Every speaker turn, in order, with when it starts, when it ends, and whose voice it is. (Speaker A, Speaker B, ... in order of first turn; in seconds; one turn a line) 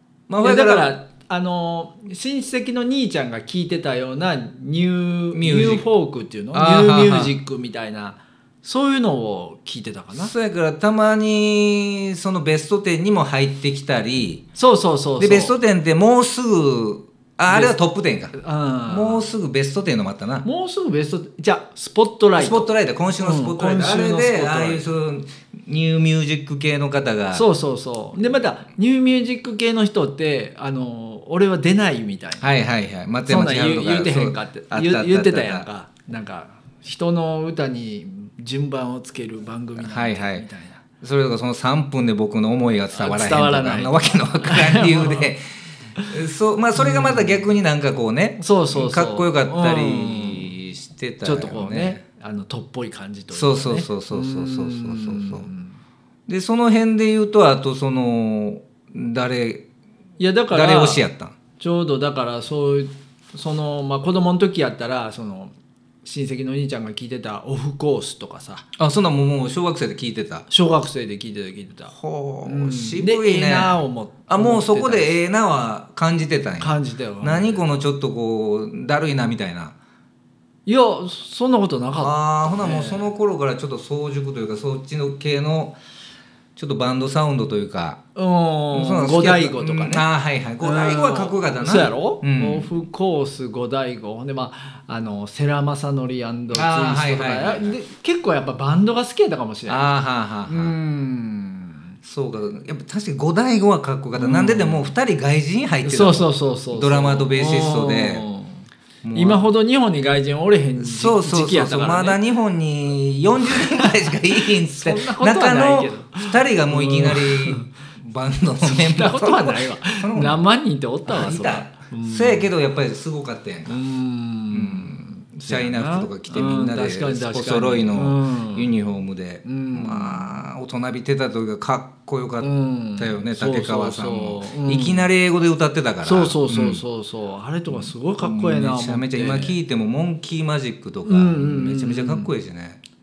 Speaker A: 0.3-0.9
Speaker B: 0.4-10.3
Speaker A: 5.3-5.8
Speaker A: 6.5-7.3
Speaker A: 10.1-14.4
Speaker B: 14.6-15.6
Speaker A: 15.2-18.4
Speaker B: 17.5-17.8
Speaker B: 18.3-19.3
Speaker A: 18.9-20.5
Speaker B: 20.4-24.8
Speaker A: 22.4-27.4
Speaker B: 27.3-32.5
Speaker A: 32.4-35.7
Speaker B: 33.2-40.8
Speaker A: 39.8-40.5
Speaker A: 41.0-45.4
Speaker B: 42.9-45.3
Speaker A: 46.0-52.0
Speaker B: 46.8-47.5
Speaker B: 48.4-50.5
Speaker B: 51.2-55.8
Speaker A: 53.3-55.5
Speaker A: 56.3-59.6
Speaker B: 60.2-61.1
Speaker A: 60.5-61.4
Speaker B: 61.6-65.5
Speaker B: 66.0-68.7
Speaker A: 68.8-70.5
Speaker B: 70.5-75.2
Speaker A: 71.9-79.8
Speaker B: 76.6-77.7
Speaker B: 80.7-83.1
Speaker A: 82.0-85.8
Speaker A: 86.6-88.0
Speaker B: 88.2-90.0
Speaker A: 88.7-92.7
Speaker B: 90.6-99.9
Speaker A: 96.5-97.8
Speaker A: 99.7-100.8
Speaker B: 100.5-102.0
Speaker A: 102.0-108.3
Speaker B: 104.2-104.9
Speaker B: 105.8-112.2
Speaker A: 109.0-109.5
Speaker A: 110.8-120.4
Speaker B: 113.4-117.7
Speaker B: 118.6-122.5
Speaker A: 121.1-123.8
Speaker B: 123.7-128.7
Speaker A: 124.5-136.8
Speaker B: 129.4-130.5
Speaker B: 132.4-135.1
Speaker B: 136.0-139.6
Speaker A: 137.7-142.8
Speaker B: 141.1-142.3